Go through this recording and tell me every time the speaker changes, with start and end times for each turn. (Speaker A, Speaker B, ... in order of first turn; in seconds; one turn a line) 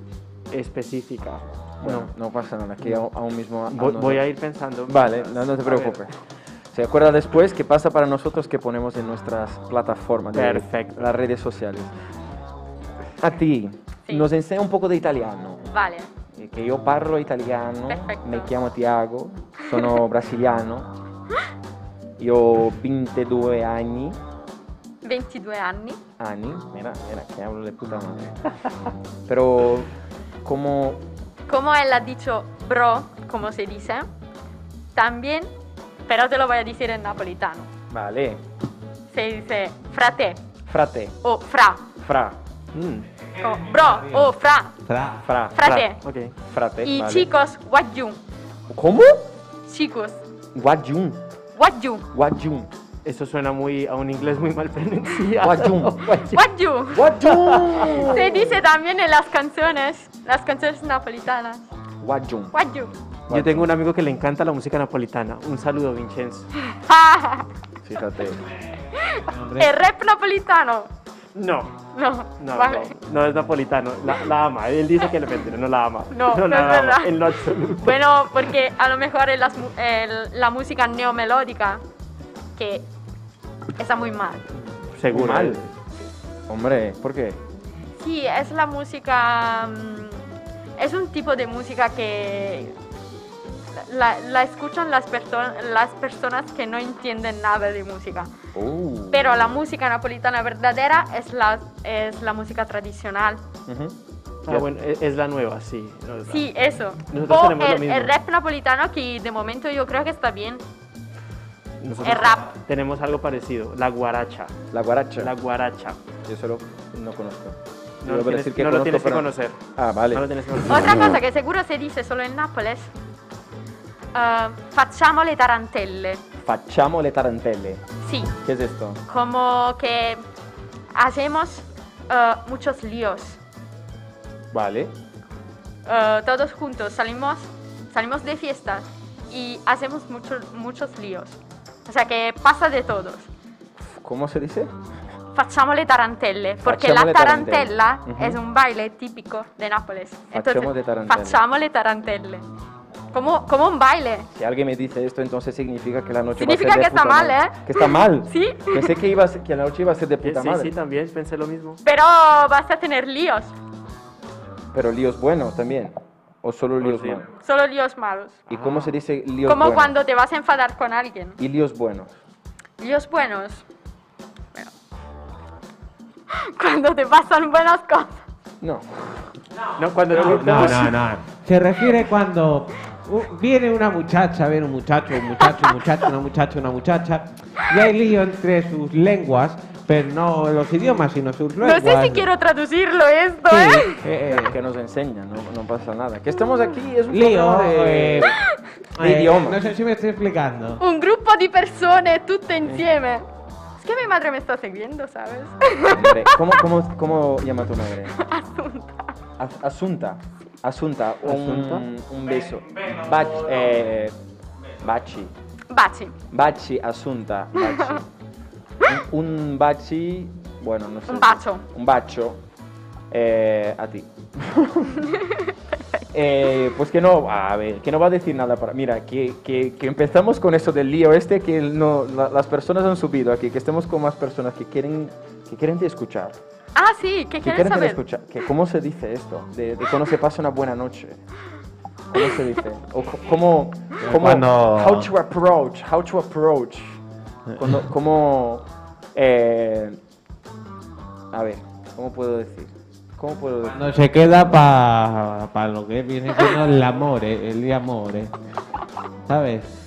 Speaker A: 0.5-2.1
Speaker B: 1.8-4.3
Speaker A: 3.7-6.0
Speaker B: 4.9-6.1
Speaker B: 6.7-11.9
Speaker A: 10.3-11.0
Speaker B: 13.2-15.7
Speaker C: 15.7-16.1
Speaker B: 16.3-20.9
Speaker C: 17.9-18.5
Speaker B: 22.2-24.2
Speaker C: 25.0-26.0
Speaker B: 26.2-28.4
Speaker B: 29.3-29.9
Speaker B: 30.4-31.0
Speaker C: 31.5-34.1
Speaker C: 35.0-35.5
Speaker C: 36.1-37.7
Speaker B: 37.9-38.4
Speaker C: 39.1-40.4
Speaker B: 40.7-41.2
Speaker C: 41.2-41.9
Speaker B: 42.0-43.0
Speaker C: 43.4-44.8
Speaker D: 43.4-44.3
Speaker D: 44.9-45.2
Speaker B: 45.2-46.0
Speaker C: 45.5-46.0
Speaker A: 46.0-46.3
Speaker B: 46.5-47.3
Speaker C: 46.8-48.2
Speaker B: 48.7-49.3
Speaker C: 49.7-50.2
Speaker B: 50.5-51.2
Speaker C: 51.6-52.1
Speaker B: 52.1-52.7
Speaker A: 53.0-56.5
Speaker B: 55.4-56.2
Speaker C: 56.3-57.0
Speaker B: 56.9-58.2
Speaker A: 57.2-58.2
Speaker C: 57.9-61.7
Speaker B: 62.0-62.5
Speaker C: 62.5-62.9
Speaker B: 63.3-63.7
Speaker A: 63.3-66.5
Speaker C: 66.6-67.5
Speaker B: 67.8-68.5
Speaker C: 69.0-70.9
Speaker D: 69.2-69.7
Speaker A: 71.3-71.8
Speaker C: 72.0-73.0
Speaker A: 72.4-78.0
Speaker C: 76.1-77.2
Speaker C: 77.8-81.8
Speaker C: 82.6-82.9
Speaker C: 83.8-84.5
Speaker A: 84.9-85.7
Speaker B: 85.1-85.6
Speaker B: 86.5-87.4
Speaker C: 88.0-90.2
Speaker C: 90.8-92.8
Speaker C: 93.7-98.3
Speaker B: 98.5-99.5
Speaker C: 99.1-103.4
Speaker B: 103.7-104.0
Speaker A: 104.5-106.5
Speaker C: 106.3-110.6
Speaker A: 107.1-108.1
Speaker A: 111.8-114.5
Speaker C: 112.0-112.5
Speaker B: 114.7-115.3
Speaker A: 115.2-116.0
Speaker B: 116.2-120.3
Speaker A: 118.0-121.2
Speaker C: 120.7-122.9
Speaker C: 124.1-126.2
Speaker B: 126.4-127.8
Speaker C: 128.0-128.3
Speaker B: 128.4-129.0
Speaker C: 129.1-130.2
Speaker C: 130.9-133.4
Speaker B: 134.5-134.9
Speaker C: 135.9-143.3
Speaker B: 143.8-144.7
Speaker C: 145.3-152.5
Speaker B: 146.6-148.4
Speaker B: 150.3-151.4
Speaker C: 153.1-154.3
Speaker B: 154.3-160.7
Speaker C: 156.4-159.0
Speaker A: 160.2-161.8
Speaker C: 161.8-163.5
Speaker B: 164.7-167.3
Speaker A: 166.8-167.3
Speaker C: 167.4-168.4
Speaker A: 168.5-169.0
Speaker B: 168.5-169.9
Speaker C: 169.4-171.4
Speaker B: 171.4-172.1
Speaker C: 172.8-173.6
Speaker C: 176.3-178.2
Speaker B: 178.6-179.3
Speaker A: 179.8-181.0
Speaker D: 180.1-192.3
Speaker C: 191.6-194.0
Speaker D: 193.5-194.6
Speaker B: 194.2-198.5
Speaker D: 197.1-198.4
Speaker B: 199.0-199.6
Speaker D: 199.0-200.8
Speaker C: 200.8-203.2
Speaker C: 203.8-206.6
Speaker B: 205.9-208.2
Speaker C: 208.1-209.1
Speaker B: 209.4-214.2
Speaker A: 211.2-211.9
Speaker B: 214.8-215.3
Speaker C: 215.7-216.2
Speaker B: 216.3-218.1
Speaker C: 217.6-218.0
Speaker B: 218.8-222.4
Speaker C: 221.1-221.6
Speaker B: 223.1-225.2
Speaker C: 225.0-226.1
Speaker B: 226.1-236.4
Speaker C: 236.8-238.0
Speaker B: 237.4-241.2
Speaker B: 242.1-247.0
Speaker C: 242.1-242.4
Speaker D: 244.0-245.1
Speaker D: 247.5-247.8
Speaker B: 247.6-250.0
Speaker B: 251.3-253.8
Speaker D: 253.7-258.3
Speaker D: 259.3-259.7